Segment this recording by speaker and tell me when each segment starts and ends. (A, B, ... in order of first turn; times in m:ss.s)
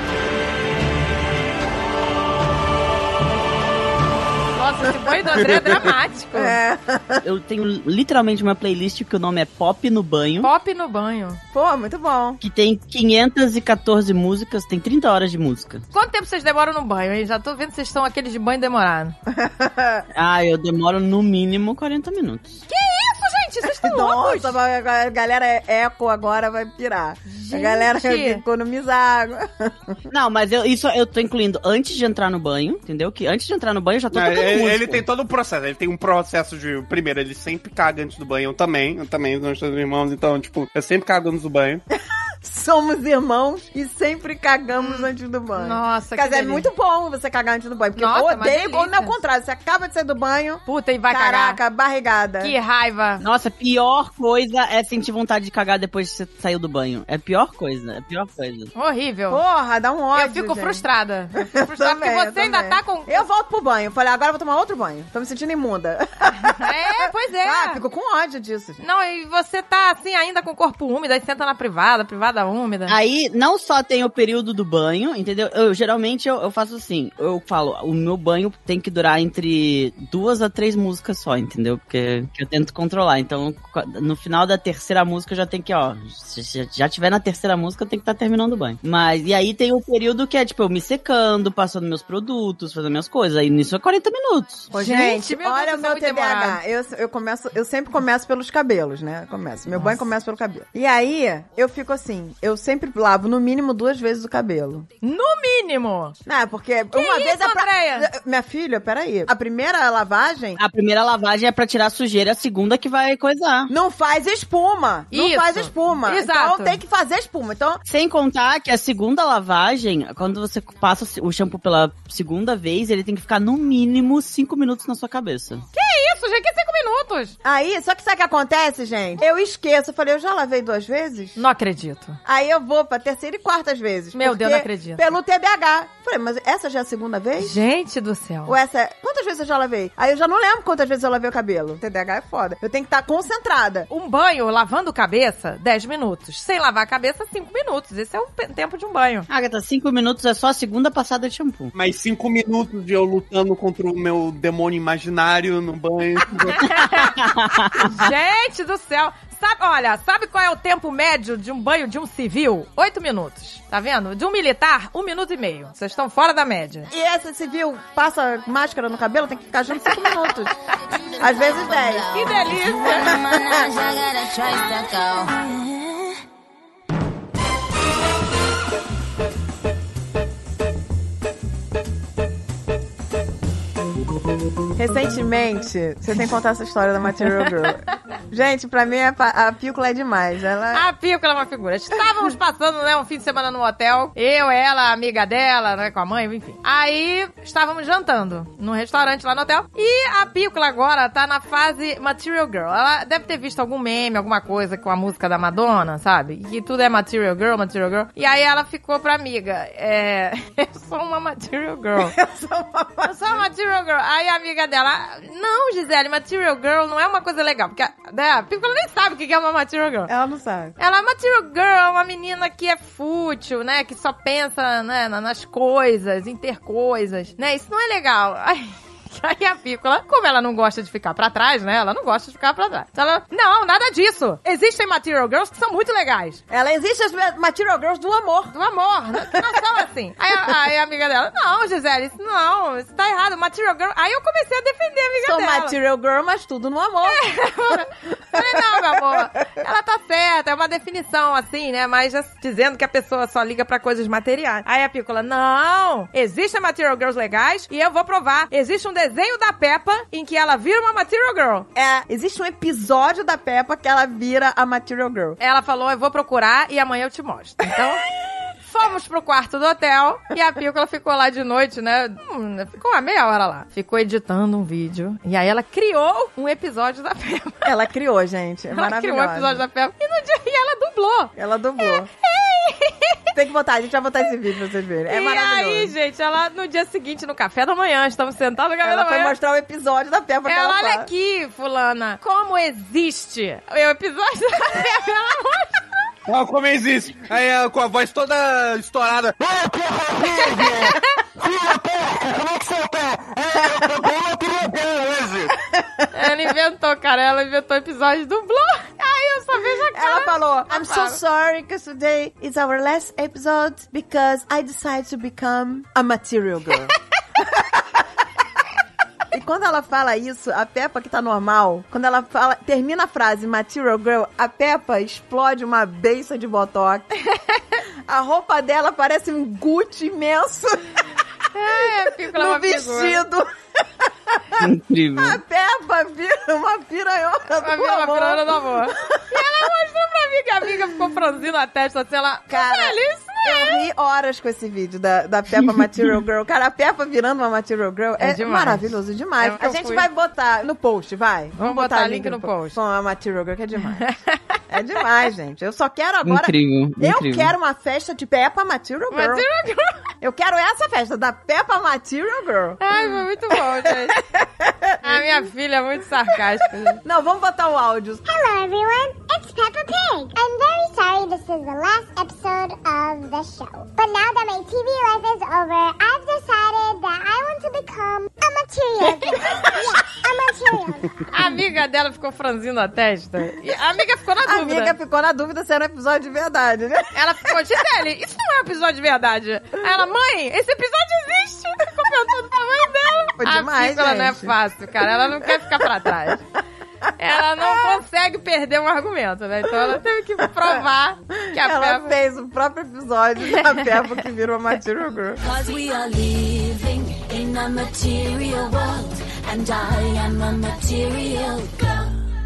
0:04.5-0:06.6 A
0:05.4-0:05.8 B
0:06.3-0:07.2 C
0:07.2-0:10.5 D
0:10.4-0:11.4 A
0:11.5-0:12.4 C
0:12.4-0:15.8 D
0:15.9-0:19.2 A
0:19.3-0:20.0 C
0:20.1-0:22.6 D
0:22.7-0:24.5 A
0:23.8-0:30.0 C
0:27.3-0:28.4 A
0:30.1-0:35.0 D
0:34.1-0:41.8 B
0:42.4-0:52.5 C
0:44.8-0:46.7 A
0:48.0-0:49.1 A
0:50.6-0:51.6 A
0:52.4-0:53.2 A
0:53.2-0:58.7 D
0:58.7-0:59.4 A
0:59.3-1:00.8 C
1:00.1-1:03.3 A
1:01.4-1:06.9 C
1:06.4-1:07.8 A
1:07.4-1:08.8 C
1:08.8-1:12.9 A
1:12.9-1:34.7 D
1:34.7-1:44.9 C
1:34.7-1:36.6 A
1:45.0-1:46.2 A
1:46.2-1:50.6 C
1:46.9-1:48.1 A
1:50.6-1:53.7 D
1:53.7-1:57.8 C
1:55.1-1:56.8 A
1:57.8-2:05.6 D
2:05.8-2:07.3 A
2:07.4-2:11.4 C
2:11.4-2:12.2 A
2:12.2-2:17.6 C
2:14.1-2:15.0 A
2:17.4-2:18.5 A
2:18.4-2:23.9 C
2:23.9-2:29.3 A
2:29.3-2:31.7 D
2:31.7-2:36.8 B
2:36.5-2:37.2 A
2:37.0-2:37.9 D
2:37.7-2:46.9 A
2:46.9-2:50.6 C
2:51.1-2:53.6 C
2:51.8-2:56.1 E
2:52.0-2:53.2 A
3:04.7-3:10.8 C
3:07.4-3:07.7 A
3:10.7-3:32.1 A
3:32.0-3:33.3 C
3:33.0-3:40.1 A
3:40.1-3:40.8 C
3:40.8-3:56.4 A
3:56.5-3:58.5 C
3:58.5-4:05.8 A
4:05.2-4:09.2 C
4:07.0-4:21.7 A
4:21.7-4:25.4 C
4:25.4-4:28.0 A
4:28.7-4:37.7 A
4:37.6-4:39.6 C
4:38.7-4:43.2 A
4:41.4-4:42.1 C
4:43.3-4:45.9 C
4:45.1-4:49.3 A
4:48.8-4:51.1 C
4:50.5-4:55.8 A
4:56.3-5:00.9 B
5:00.3-5:01.2 A
5:01.4-5:05.5 B
5:06.1-5:11.2 A
5:09.9-5:18.0 C
5:19.3-5:27.1 C
5:27.3-5:27.6 A
5:28.0-5:31.0 C
5:31.5-5:33.2 A
5:31.7-5:34.6 C
5:34.6-5:35.4 D
5:35.2-5:39.4 C
5:37.6-5:43.8 A
5:42.5-5:54.1 C
5:48.2-5:48.9 A
5:49.4-5:50.0 A
5:51.6-5:52.8 A
5:54.0-5:54.6 A
5:54.7-5:59.4 C
5:56.2-5:57.5 D
5:59.1-6:00.0 A
6:00.2-6:05.4 C
6:02.8-6:04.2 A
6:05.0-6:07.0 A
6:07.0-6:08.2 C
6:08.2-6:21.2 F
6:21.3-6:24.9 A
6:24.4-6:27.5 C
6:27.1-6:36.4 A
6:33.4-6:34.5 C
6:37.2-6:42.1 A
6:37.6-6:38.0 C
6:41.4-6:45.4 C
6:43.5-6:43.8 A
6:45.4-6:52.1 E